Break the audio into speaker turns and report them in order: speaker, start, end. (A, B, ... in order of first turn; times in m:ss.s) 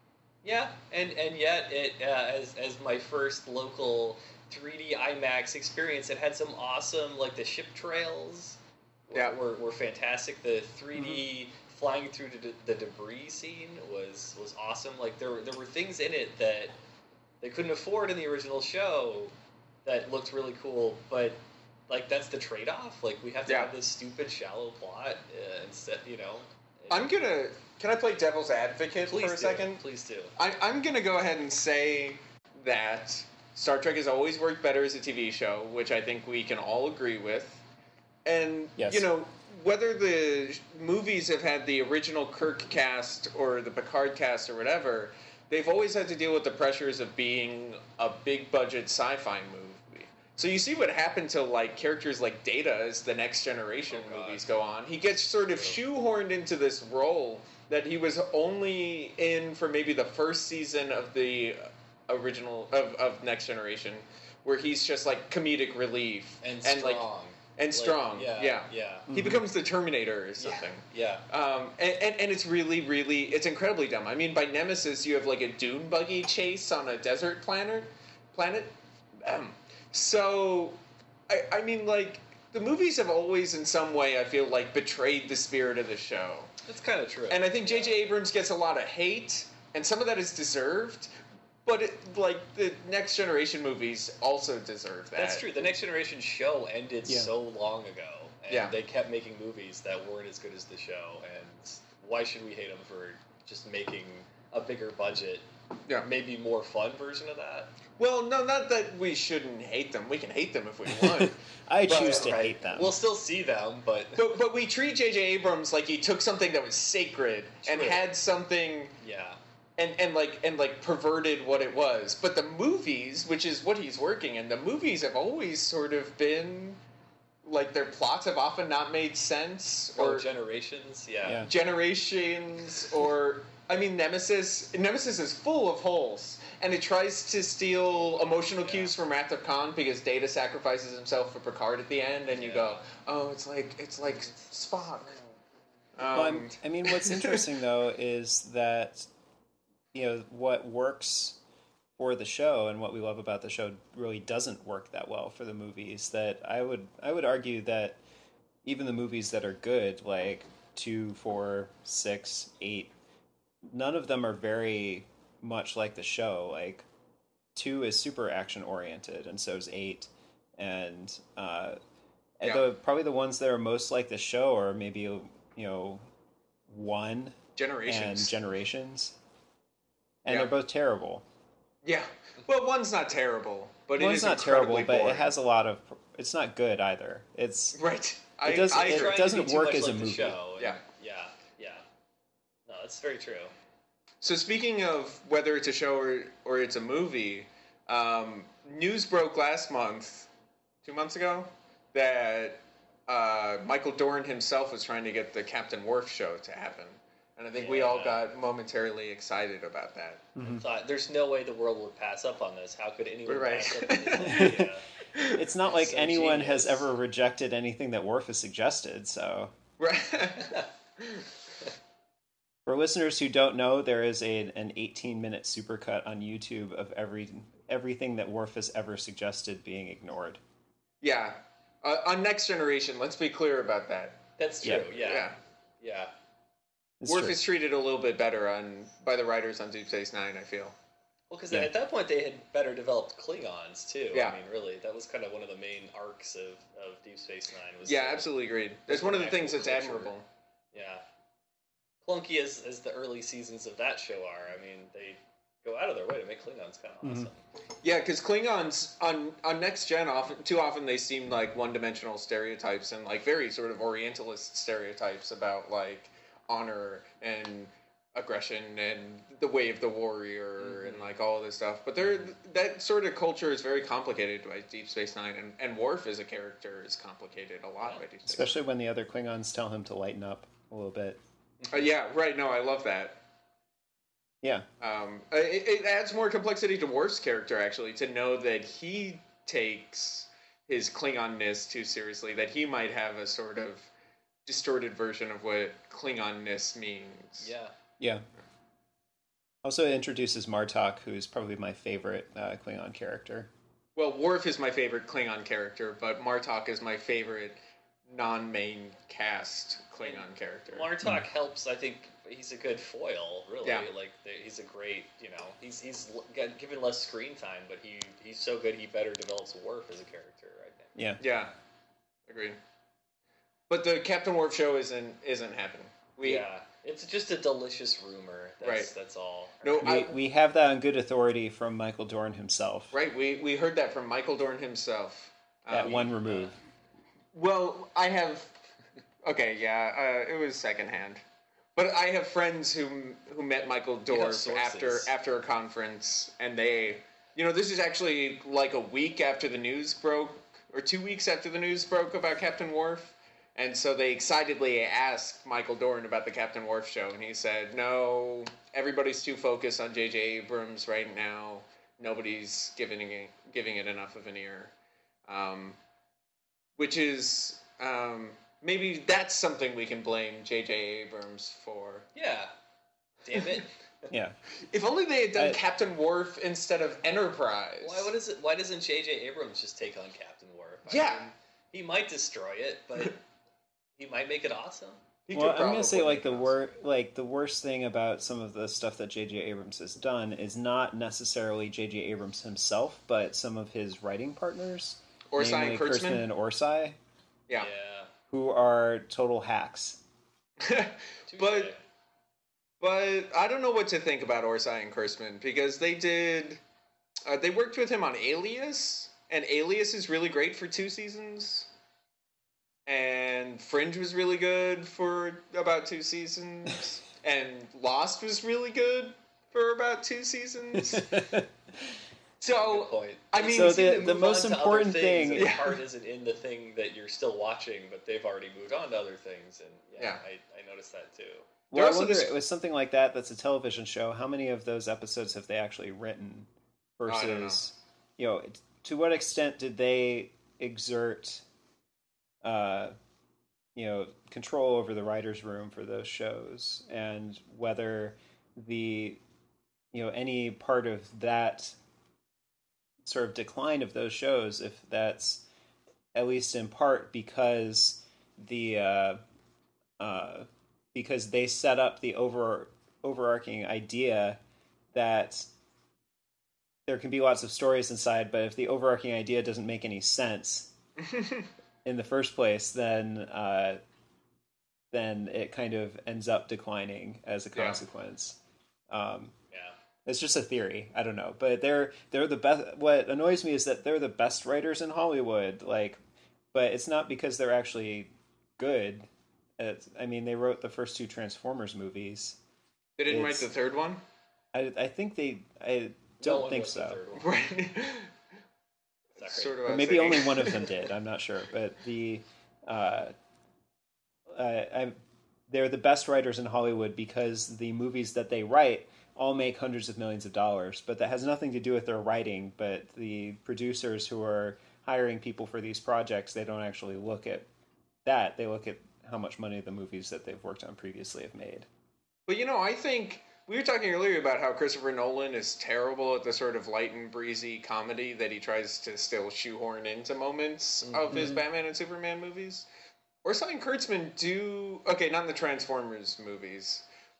0:00.4-0:16.7 A
0:10.9-0:11.2 B
0:17.4-0:19.3 A
0:19.8-0:27.1 A
0:23.5-0:23.7 C
0:26.9-0:29.8 C
0:29.0-0:30.3 A
0:30.4-0:37.6 C
0:38.2-1:20.8 C
0:38.8-0:39.0 B
0:53.9-0:54.5 A
0:55.4-0:55.8 A
1:06.4-1:09.1 A
1:09.1-1:09.4 B
1:10.4-1:11.2 A
1:21.3-1:26.5 C
1:26.6-1:28.0 A
1:27.3-1:31.1 C
1:31.6-1:35.5 C
1:35.1-1:45.4 A
1:37.1-1:37.3 B
1:38.5-1:38.7 C
1:46.0-1:47.7 A
1:48.0-1:52.3 C
1:51.0-1:53.0 B
1:51.9-1:54.3 A
1:54.2-1:59.0 C
1:57.6-1:58.0 A
1:59.0-1:59.4 A
1:59.8-2:06.8 C
2:07.4-2:10.2 C
2:09.9-2:11.5 A
2:11.2-2:11.5 B
2:11.4-2:25.1 C
2:18.0-2:18.9 A
2:22.3-2:22.9 A
2:24.0-2:25.4 A
2:26.0-2:27.4 C
2:26.1-2:29.1 B
2:29.9-2:31.4 B
2:32.0-2:38.0 B
2:38.6-2:42.9 B
2:43.6-2:46.8 B
2:47.5-2:51.8 B
2:52.4-2:56.0 B
2:56.7-2:59.2 B
2:57.6-2:58.3 C
3:00.2-3:01.2 B
3:00.3-3:00.5 C
3:01.8-3:05.3 C
3:04.0-3:07.8 B
3:07.7-3:09.2 C
3:08.4-3:10.4 B
3:08.7-3:11.8 A
3:12.7-3:13.5 A
3:14.2-3:20.3 C
3:20.8-3:30.3 C
3:27.6-3:28.2 A
3:30.4-3:30.6 B
3:30.4-3:34.8 A
3:33.3-3:34.5 C
3:34.2-3:34.7 B
3:35.1-3:35.4 C
3:35.2-3:39.5 B
3:35.6-3:36.8 A
3:39.8-3:41.2 C
3:40.4-3:40.6 A
3:42.6-3:50.4 B
3:51.0-3:54.2 C
3:54.4-3:56.1 A
3:54.8-3:55.4 C
3:57.0-3:57.4 B
3:57.0-4:00.7 C
4:01.3-4:08.3 A
4:04.1-4:04.4 C
4:07.8-4:10.2 C
4:08.9-4:10.1 A
4:10.7-4:11.0 A
4:12.0-4:17.4 A
4:17.0-4:17.3 B
4:17.8-4:38.5 C
4:30.6-4:31.1 A
4:38.2-4:41.2 B
4:41.7-4:43.2 C
4:44.8-4:53.9 C
4:54.4-4:57.5 C
4:57.4-4:57.7 A
4:58.0-4:58.2 B
4:59.6-5:03.5 B
5:04.0-5:10.9 C
5:10.0-5:20.9 A
5:20.9-5:21.2 B
5:21.2-5:21.5 C
5:22.3-5:22.6 C
5:23.7-5:26.4 C
5:26.2-5:29.9 A
5:28.6-5:28.9 C
5:29.6-5:30.1 C
5:29.8-5:32.9 B
5:32.9-5:36.1 C
5:35.7-5:36.5 B
5:36.2-5:36.5 A
5:37.3-5:38.5 C
5:39.2-5:41.2 C
5:41.8-6:04.7 C
5:44.1-5:45.1 A
6:05.3-6:05.8 C
6:06.8-6:12.1 C
6:12.1-6:12.5 A
6:13.2-6:14.1 A
6:14.1-6:14.4 B
6:14.7-6:18.1 C
6:15.3-6:15.6 B
6:17.8-6:23.2 A
6:20.9-6:21.3 C
6:24.0-6:25.0 A
6:25.3-6:26.5 C
6:25.3-6:37.0 B
6:35.3-6:36.2 C
6:37.6-6:38.1 A
6:38.3-6:40.0 B
6:40.6-6:41.7 C
6:41.3-6:41.8 A
6:42.8-6:46.6 C
6:47.2-6:51.7 C
6:52.8-7:01.3 C
7:00.8-7:01.5 B
7:02.4-7:04.0 C
7:02.5-7:11.5 A
7:03.5-7:05.5 B
7:05.3-7:05.8 C
7:11.7-7:21.4 B
7:11.7-7:12.3 C
7:17.1-7:17.6 C
7:22.4-7:22.9 B
7:23.7-7:29.2 B
7:29.9-7:31.8 B
7:33.0-7:35.4 B
7:36.1-7:39.2 B
7:40.0-7:44.4 B
7:44.9-7:45.5 B
7:46.8-7:50.7 B
7:51.0-7:51.4 C
7:51.8-7:53.8 B
7:54.9-7:58.4 B
7:57.5-7:57.8 C
7:58.9-7:59.3 B
8:00.0-8:06.0 B
8:06.5-8:12.4 B
8:13.0-8:14.0 C
8:13.1-8:13.5 B
8:14.5-8:17.0 B
8:16.2-8:17.3 A
8:17.2-8:18.1 C
8:19.2-8:19.6 A
8:19.2-8:20.7 C
8:19.6-8:23.1 B
8:24.3-8:37.5 B
8:38.0-8:41.7 B
8:42.3-8:52.7 C
8:50.8-8:51.4 A
8:51.1-8:51.4 B
8:53.2-8:56.8 C